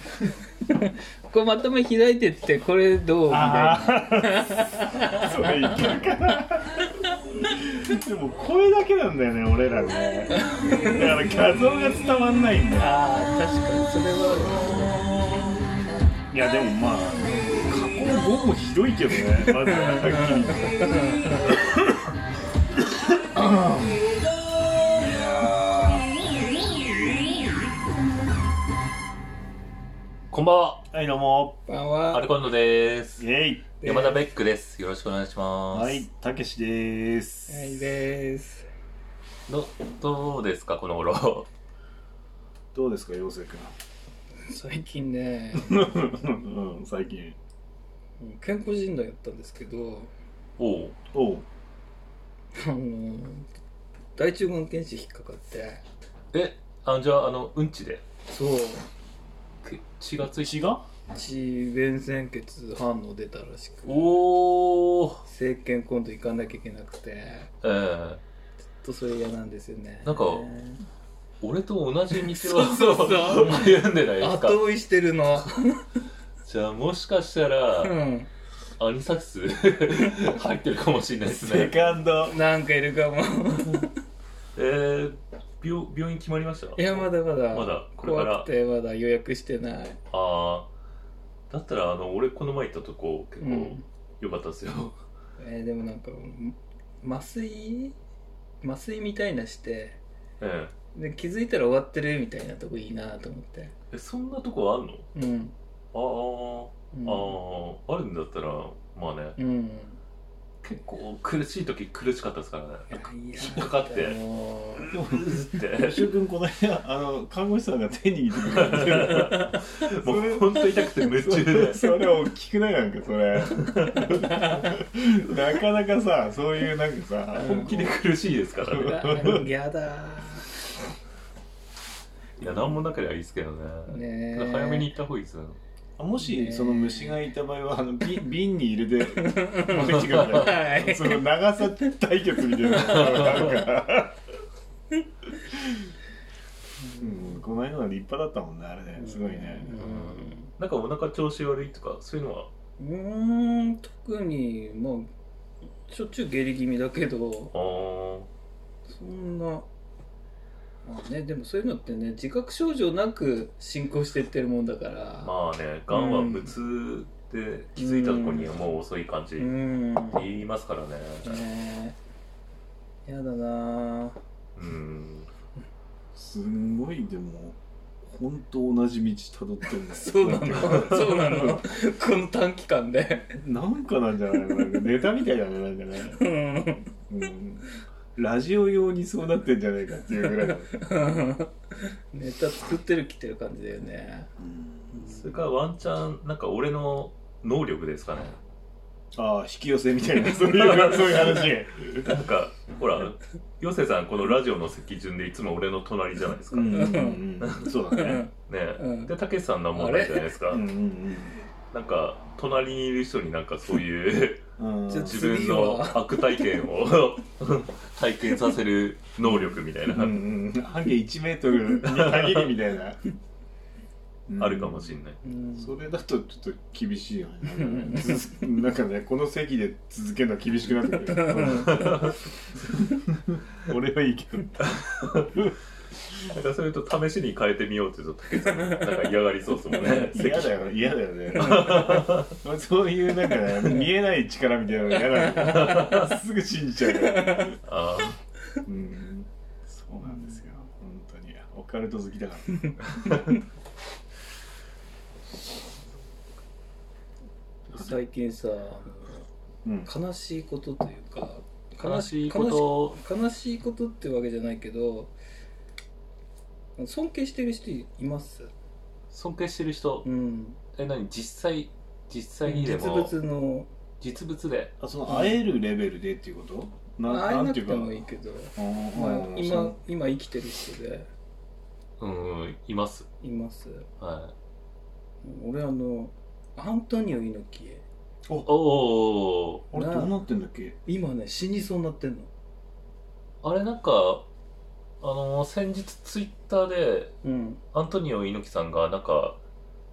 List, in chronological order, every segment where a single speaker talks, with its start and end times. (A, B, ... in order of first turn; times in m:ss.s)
0:00.7-0:06.1 A
0:03.3-0:06.8 B
0:06.7-0:07.1 A
0:07.4-0:13.0 B
0:10.3-0:11.1 A
0:12.8-0:15.2 A
0:16.3-0:20.9 B
0:19.5-0:21.4 A
0:21.5-0:22.0 B
0:23.1-0:24.0 B
0:25.0-0:26.1 B
0:30.3-0:30.8 C
0:30.9-0:31.6 B
0:31.7-0:32.3 A
0:32.1-0:33.2 C
0:33.2-0:33.8 B
0:33.8-0:36.0 C
0:33.8-0:34.2 A
0:35.7-0:38.0 B
0:37.5-0:38.7 A
0:39.5-0:41.5 C
0:42.7-0:43.7 B
0:44.4-0:45.9 A
0:45.6-0:47.4 B
0:48.2-0:50.1 A
0:50.6-0:51.0 C
0:51.1-0:51.5 B
0:52.6-0:53.5 A
0:54.2-0:55.8 A
0:56.3-0:58.0 C
0:58.3-0:58.8 A
0:59.6-1:00.6 C
1:00.4-1:00.8 B
1:01.1-1:04.1 A
1:03.9-1:05.2 C
1:05.2-1:07.5 A
1:07.6-1:08.2 C
1:08.8-1:10.8 A
1:10.0-1:10.5 C
1:11.4-1:14.6 C
1:12.1-1:15.9 A
1:16.4-1:17.9 C
1:17.8-1:18.3 A
1:18.8-1:21.9 C
1:21.3-1:22.4 B
1:22.2-1:23.9 A
1:24.6-1:28.5 C
1:26.8-1:30.0 A
1:30.1-1:30.7 C
1:31.5-1:35.0 C
1:33.4-1:33.8 A
1:35.4-1:38.0 A
1:38.6-1:40.0 A
1:40.4-1:40.7 C
1:40.9-1:43.7 A
1:43.9-1:45.0 C
1:45.2-1:45.5 A
1:45.9-1:49.4 C
1:46.9-1:47.4 A
1:49.4-1:50.0 A
1:50.6-1:54.2 C
1:52.9-1:55.0 A
1:54.8-1:56.1 C
1:54.9-2:08.0 B
1:58.4-2:01.8 C
1:59.0-1:59.6 A
2:03.5-2:04.1 C
2:03.9-2:04.8 A
2:07.4-2:09.4 C
2:07.4-2:07.8 A
2:08.7-2:09.5 B
2:08.8-2:10.5 A
2:12.4-2:15.6 C
2:12.4-2:12.8 B
2:13.9-2:14.9 A
2:16.0-2:24.2 B
2:16.2-2:17.2 A
2:19.1-2:21.3 A
2:19.8-2:20.6 C
2:22.6-2:23.6 A
2:23.0-2:23.5 C
2:26.8-2:27.4 A
2:27.0-2:29.7 B
2:29.0-2:30.5 A
2:29.8-2:32.5 C
2:32.8-2:35.1 A
2:35.9-2:37.5 A
2:37.5-2:38.3 C
2:38.9-2:39.7 A
2:40.8-2:45.4 A
2:45.2-2:49.5 C
2:45.9-2:46.5 A
2:47.8-2:48.6 A
2:49.4-2:50.3 A
2:50.1-2:51.4 C
2:51.2-2:52.0 A
2:53.0-2:54.2 A
2:54.6-2:55.3 C
2:56.2-3:01.6 B
2:59.8-3:03.4 A
3:03.4-3:06.2 B
3:06.1-3:06.9 A
3:07.1-3:10.8 B
3:10.7-3:14.3 A
3:14.4-3:15.0 B
3:14.9-3:15.4 A
3:15.1-3:18.4 C
3:19.2-3:22.2 B
3:20.3-3:27.7 C
3:26.5-3:28.2 B
3:26.7-3:27.2 A
3:27.9-3:29.1 A
3:28.5-3:30.6 C
3:29.7-3:30.3 A
3:30.5-3:31.4 B
3:31.7-3:34.4 C
3:34.6-3:35.2 B
3:34.9-3:36.6 A
3:35.0-3:40.3 C
3:39.2-3:43.0 B
3:41.8-3:42.5 C
3:44.3-3:45.0 B
3:44.4-3:45.2 C
3:45.2-3:45.8 A
3:45.6-3:52.2 B
3:47.6-3:48.4 A
3:51.1-3:52.0 A
3:51.6-3:52.2 C
3:52.9-3:54.8 B
3:54.6-3:55.4 C
3:56.2-4:00.6 C
3:59.7-4:07.6 B
4:01.3-4:02.4 C
4:01.4-4:02.1 A
4:03.6-4:03.9 A
4:04.9-4:06.0 A
4:05.4-4:06.2 C
4:06.9-4:07.6 A
4:07.6-4:08.2 C
4:08.7-4:13.3 B
4:10.0-4:10.5 A
4:12.7-4:13.4 A
4:17.7-4:19.2 A
4:19.6-4:19.9 B
4:19.8-4:25.1 A
4:21.8-4:23.0 C
4:26.8-4:28.5 A
4:29.1-4:30.1 C
4:30.0-4:30.6 A
4:30.7-4:33.1 C
4:32.4-4:33.7 A
4:34.0-4:34.7 C
4:34.8-4:39.8 B
4:35.1-4:35.4 A
4:37.1-4:41.1 A
4:42.0-4:43.1 C
4:43.2-4:43.9 A
4:44.0-4:44.3 C
4:45.2-4:47.8 A
4:48.5-4:49.6 C
4:49.7-4:50.8 B
4:49.7-4:50.1 A
4:50.9-4:52.3 A
4:53.4-4:54.3 C
4:55.0-4:57.1 C
4:57.2-4:57.6 A
4:57.7-4:59.4 C